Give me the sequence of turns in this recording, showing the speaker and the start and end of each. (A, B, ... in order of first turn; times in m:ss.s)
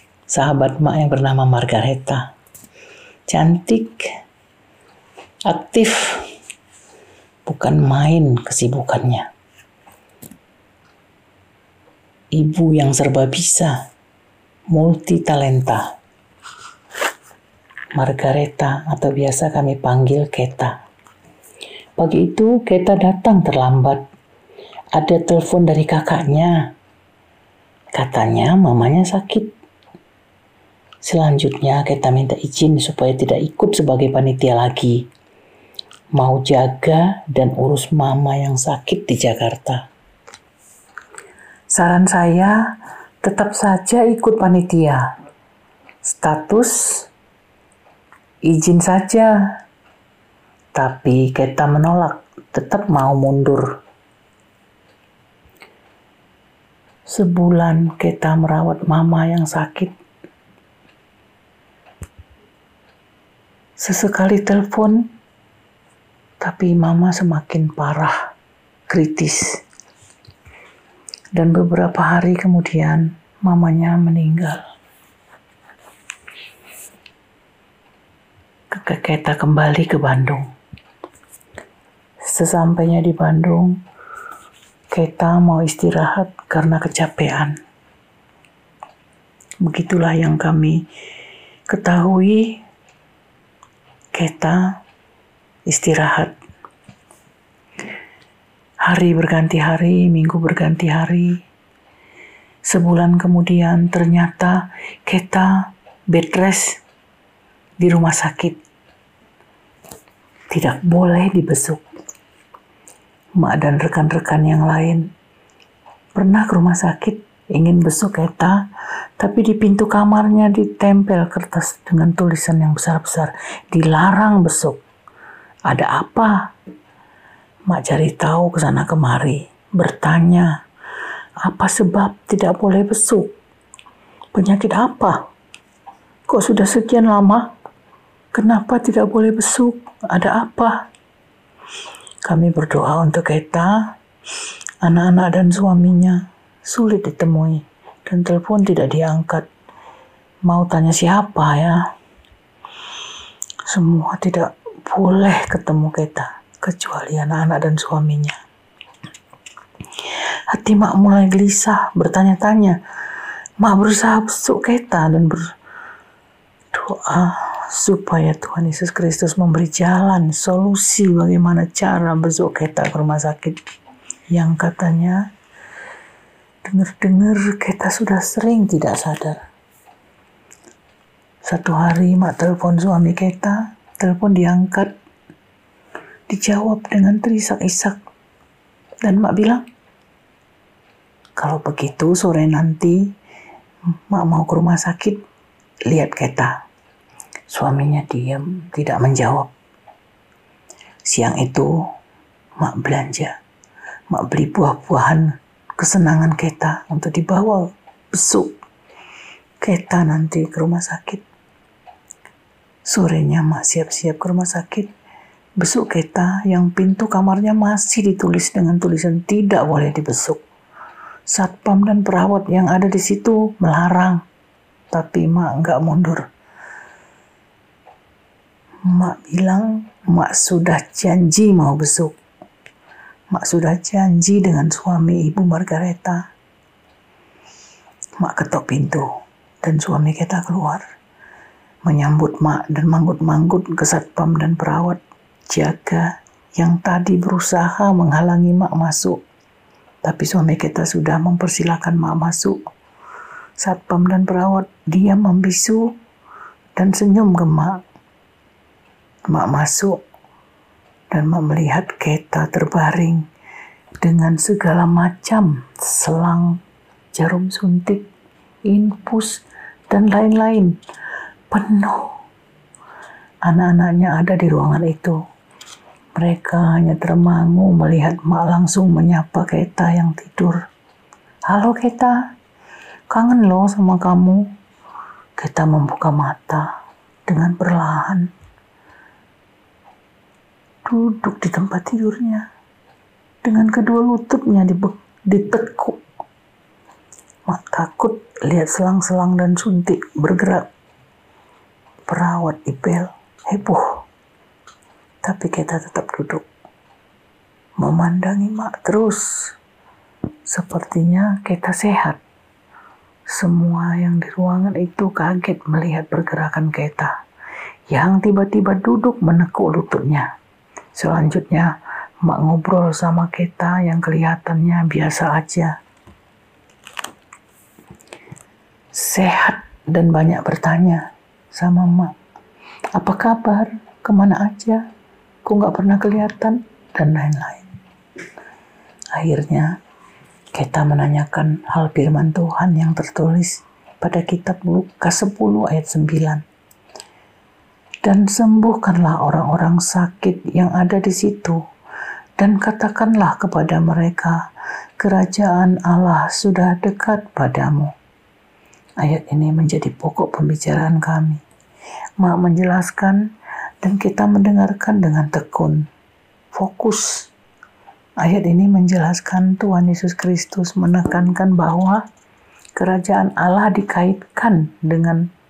0:00.3-0:02.2 A
0:03.3-0:04.0 A
0:05.4-0:06.2 A
0:07.4-0:09.3 A
0:12.3-0:13.8 A
0:14.7-0:15.8 A
0:17.9-0:20.8 A
0:22.0-0:24.0 A
0:24.9-0:26.7 A
0:27.9-0:29.5 A
0:31.0-0:35.1 A
0:36.1-0:39.9 A
0:41.7-0:42.5 A
0:43.2-0:45.0 A
0:46.0-0:47.1 A
0:48.4-0:49.3 A
0:50.7-0:53.8 A
0:57.1-0:59.9 A
1:03.8-1:05.1 A
1:06.4-1:08.1 A
1:08.9-1:09.6 A
1:11.3-1:14.6 A
1:18.7-1:20.5 A
1:22.2-1:23.8 A
1:24.9-1:27.6 A
1:29.6-1:30.9 A
1:31.7-1:32.6 A
1:34.1-1:34.8 A
1:35.7-1:36.3 A
1:38.8-1:41.4 A
1:42.6-1:46.8 A
1:47.8-1:48.6 A
1:50.5-1:51.8 A
1:53.4-1:55.0 A
1:56.1-1:58.6 A
1:59.2-2:04.8 A
2:05.7-2:06.5 A
2:07.7-2:10.5 A
2:11.4-2:13.3 A
2:14.3-2:15.2 A
2:16.3-2:17.5 A
2:18.3-2:20.9 A
2:22.2-2:23.9 A
2:24.8-2:29.5 A
2:30.4-2:31.8 A
2:33.6-2:38.4 A
2:40.5-2:42.8 A
2:43.6-2:45.4 A
2:46.7-2:53.6 A
2:54.3-2:55.2 A
2:56.6-2:59.4 A
3:01.4-3:04.9 A
3:06.3-3:08.0 A
3:09.0-3:09.6 A
3:11.4-3:13.1 A
3:14.0-3:15.2 A
3:15.9-3:16.5 A
3:17.5-3:19.5 A
3:21.1-3:21.8 A
3:22.6-3:23.3 A
3:24.1-3:28.5 A
3:29.6-3:31.2 A
3:32.8-3:34.9 A
3:35.6-3:40.4 A
3:41.3-3:44.2 A
3:44.9-3:46.2 A
3:48.8-3:52.1 A
3:53.3-3:56.2 A
3:58.2-3:59.1 A
3:59.6-4:00.8 A
4:01.8-4:09.2 A
4:10.0-4:12.6 A
4:13.6-4:15.9 A
4:16.8-4:17.8 A
4:19.3-4:20.0 A
4:21.1-4:23.2 A
4:24.0-4:26.6 A
4:27.1-4:28.1 A
4:28.6-4:30.7 A
4:31.5-4:32.1 A
4:33.4-4:35.2 A
4:36.1-4:40.6 A
4:41.5-4:42.2 A
4:43.1-4:44.5 A
4:45.4-4:46.7 A
4:47.3-4:48.3 A
4:50.8-4:52.5 A
4:53.4-4:56.0 A
4:57.5-5:00.6 A
5:02.1-5:04.0 A
5:05.2-5:06.4 A
5:07.8-5:09.5 A
5:10.5-5:12.2 A
5:13.3-5:17.1 A
5:17.9-5:20.3 A
5:20.9-5:25.8 A
5:28.9-5:32.1 A
5:32.9-5:34.8 A
5:35.4-5:37.7 A
5:39.1-5:39.7 A
5:40.5-5:46.4 A
5:48.0-5:51.6 A
5:52.4-5:54.4 A
5:55.0-5:57.9 A
5:59.0-6:01.4 A
6:02.2-6:03.2 A
6:03.8-6:05.8 A
6:06.5-6:07.3 A
6:08.2-6:12.0 A
6:12.8-6:15.2 A